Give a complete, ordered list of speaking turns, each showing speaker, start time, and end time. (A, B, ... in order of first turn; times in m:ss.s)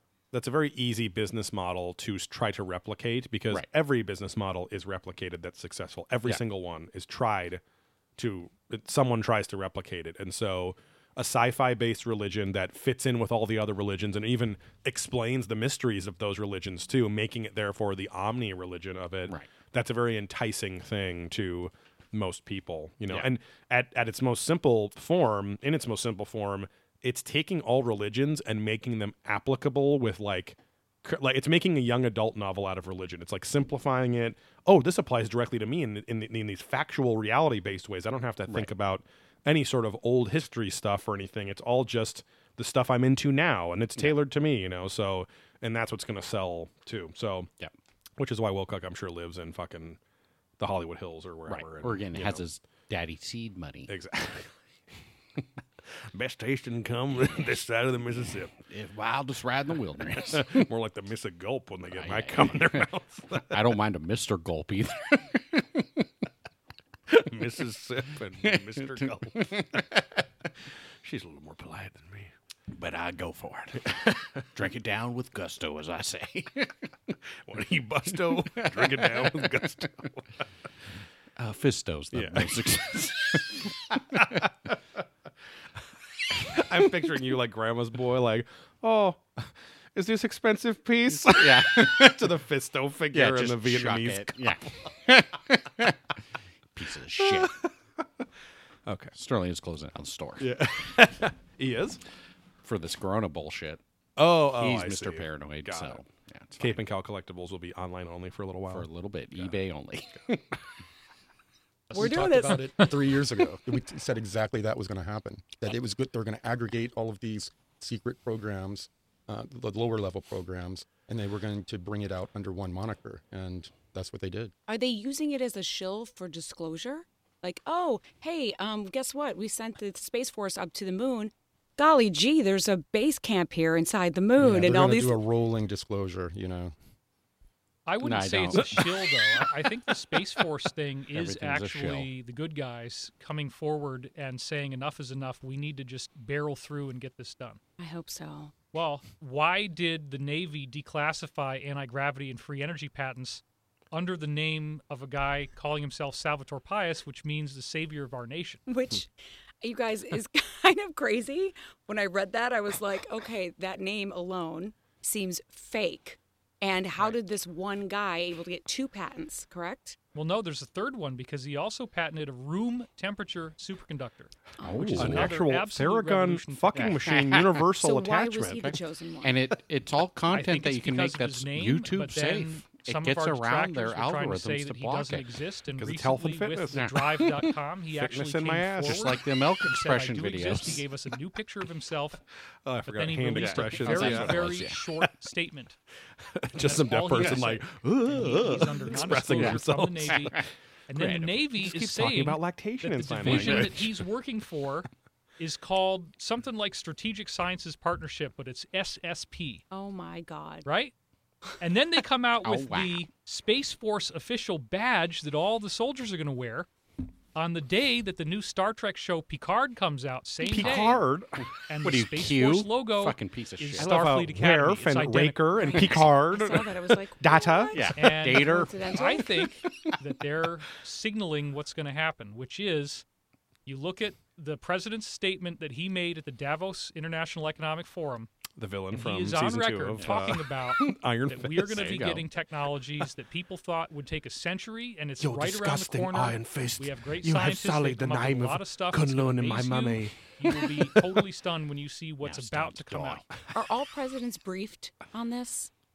0:00.3-0:07.6 A
0:08.2-0:47.5 A
0:48.2-0:50.0 A
0:50.6-0:52.4 A
0:51.5-0:53.9 B
0:53.9-0:54.6 A
0:55.9-0:58.5 A
0:58.6-1:00.7 B
1:00.1-1:03.7 A
1:01.9-1:02.9 B
1:03.4-1:06.1 B
1:07.1-1:10.0 A
1:08.4-1:10.1 B
1:11.0-1:12.3 A
1:12.7-1:16.9 B
1:13.8-1:14.4 A
1:17.3-1:20.4 A
1:18.1-1:19.9 B
1:21.4-1:24.5 B
1:22.1-1:25.0 A
1:26.3-1:34.7 A
1:31.2-1:32.3 B
1:33.1-1:36.2 B
1:36.7-1:37.6 B
1:37.2-1:38.3 A
1:38.8-1:39.1 A
1:39.1-1:40.5 B
1:40.4-1:42.0 A
1:42.6-1:43.8 B
1:44.2-1:46.0 A
1:44.5-1:46.8 B
1:46.6-1:49.5 A
1:48.7-1:50.6 B
1:51.9-2:04.5 C
1:51.9-1:52.8 D
1:52.4-1:52.9 E
2:04.7-2:15.2 D
2:14.4-2:16.7 C
2:17.8-2:27.6 E
2:18.0-2:18.7 B
2:18.6-2:19.5 A
2:21.1-2:22.1 B
2:27.8-2:28.5 D
2:28.7-2:38.6 E
2:38.7-2:39.1 D
2:39.6-2:50.0 D
2:50.1-2:57.0 E
2:54.6-2:55.3 B
2:55.0-2:58.8 A
2:57.0-2:57.5 B
2:57.6-2:59.4 D
2:59.2-3:05.2 B
3:00.3-3:12.2 E
3:05.7-3:06.9 A
3:06.7-3:07.3 B
3:07.9-3:09.1 A
3:08.8-3:10.8 B
3:12.6-3:14.6 A
3:12.9-3:15.8 E
3:13.3-3:14.8 B
3:16.2-3:20.4 A
3:16.6-3:29.6 E
3:19.1-3:21.4 B
3:21.5-3:23.9 A
3:23.2-3:23.9 B
3:29.7-3:30.6 D
3:30.6-3:30.9 E
3:31.6-3:36.7 E
3:32.4-3:33.0 B
3:37.3-3:41.0 E
3:40.4-3:41.4 A
3:41.7-3:46.0 E
3:41.8-3:43.9 B
3:43.8-3:47.9 A
3:45.6-3:49.4 D
3:47.7-3:50.0 B
3:48.0-3:53.0 E
3:53.6-3:58.3 E
3:58.6-4:02.0 A
3:58.9-4:13.2 E
4:00.0-4:00.8 B
4:01.7-4:02.2 B
4:05.2-4:11.2 A
4:12.2-4:13.2 B
4:13.5-4:15.7 D